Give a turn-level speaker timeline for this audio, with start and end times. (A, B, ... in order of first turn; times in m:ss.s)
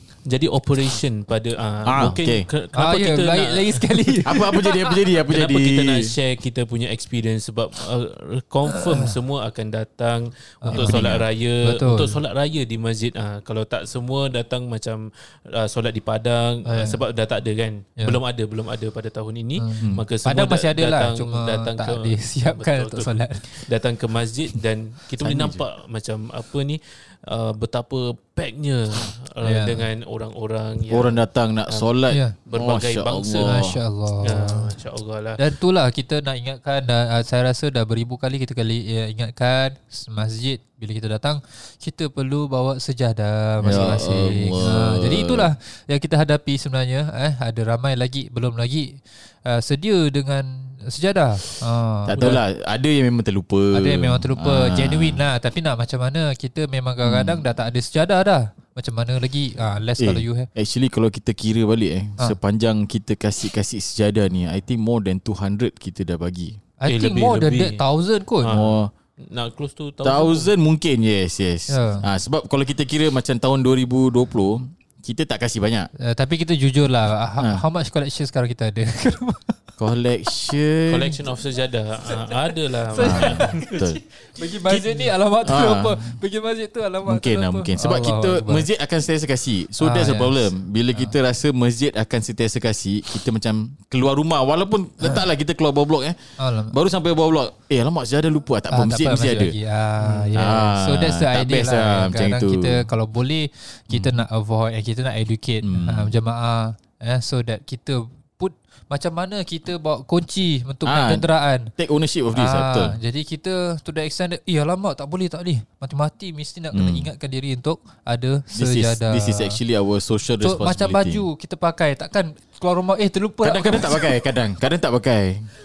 0:00.3-0:04.2 A
0:01.9-0:02.5 B
0:02.8-0:04.9 C
0:04.2-0:06.1 B
0:05.3-0:31.9 A
0:08.7-0:09.1 C
0:10.6-0:11.0 C
0:10.7-0:11.3 B
0:11.6-0:12.2 C
0:16.7-0:17.0 C
0:19.6-0:23.7 C
0:25.2-0:25.6 B
0:29.4-0:29.9 C
0:30.9-0:33.8 B
0:32.1-0:32.4 C
0:32.5-0:33.6 A
0:33.4-0:34.8 C
0:34.2-0:35.4 A
0:35.4-0:52.4 C
0:43.6-0:45.5 B
0:43.7-0:44.0 A
0:52.1-0:55.2 B
0:53.7-1:00.5 C
0:57.0-0:57.4 B
1:00.0-1:06.6 B
1:06.8-1:08.5 C
1:06.9-1:07.8 A
1:08.4-1:10.5 A
1:08.5-1:08.9 B
1:10.0-1:15.9 B
1:11.7-1:12.0 C
1:16.0-1:19.6 C
1:19.8-1:21.2 B
1:20.9-1:23.6 A
1:22.1-1:28.7 C
1:23.0-1:24.0 B
1:24.7-1:26.2 B
1:27.0-1:36.2 B
1:29.8-1:31.1 C
1:36.4-1:36.8 C
1:36.7-1:39.6 B
1:38.7-1:51.7 C
1:40.1-1:40.6 A
1:40.4-1:42.8 B
1:43.9-1:44.2 B
1:45.6-1:46.1 B
1:50.9-1:53.0 B
1:52.3-1:59.6 C
1:56.7-1:57.1 B
1:58.5-2:01.2 B
2:00.4-2:04.2 C
2:03.4-2:05.5 B